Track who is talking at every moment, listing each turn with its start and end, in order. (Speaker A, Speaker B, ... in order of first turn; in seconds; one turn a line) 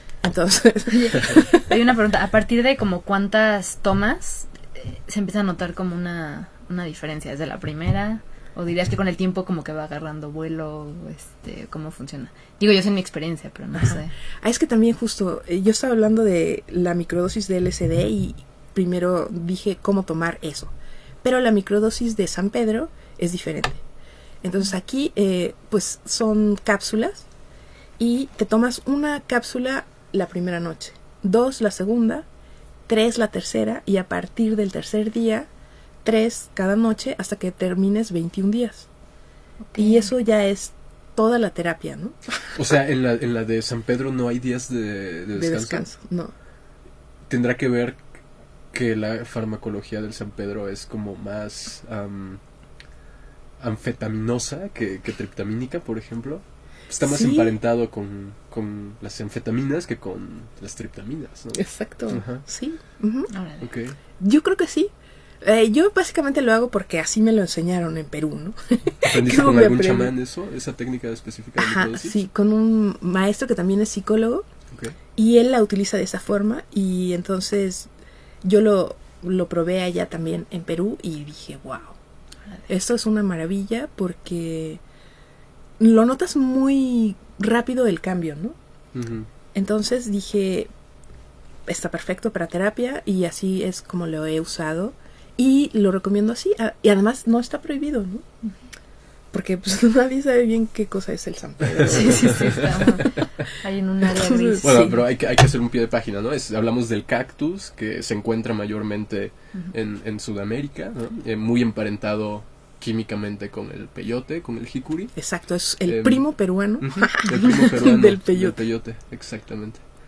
Speaker A: 0.2-1.6
Speaker B: 1.1-14.1
Speaker A: 13.8-23.8
Speaker A: 24.4-27.3
Speaker A: 28.0-32.3
Speaker A: 32.9-35.5
Speaker A: 36.0-38.9
Speaker B: 39.7-40.1
Speaker A: 39.8-42.6
Speaker C: 42.5-45.9
Speaker A: 45.4-46.3
Speaker C: 47.3-48.0
Speaker C: 48.7-52.4
Speaker C: 53.6-62.4
Speaker A: 57.0-57.5
Speaker A: 61.6-63.3
Speaker B: 63.3-63.7
Speaker C: 63.6-64.0
Speaker A: 64.2-70.1
Speaker C: 69.1-72.2
Speaker A: 71.6-74.5
Speaker A: 75.2-77.9
Speaker A: 78.4-82.0
Speaker A: 82.7-84.8
Speaker A: 85.8-88.6
Speaker C: 88.9-89.3
Speaker A: 89.5-90.7
Speaker A: 91.7-98.2
Speaker A: 99.3-102.8
Speaker C: 101.9-102.8
Speaker B: 101.9-104.7
Speaker A: 104.0-105.0
Speaker C: 104.6-115.2
Speaker A: 115.2-118.6
Speaker C: 115.8-119.8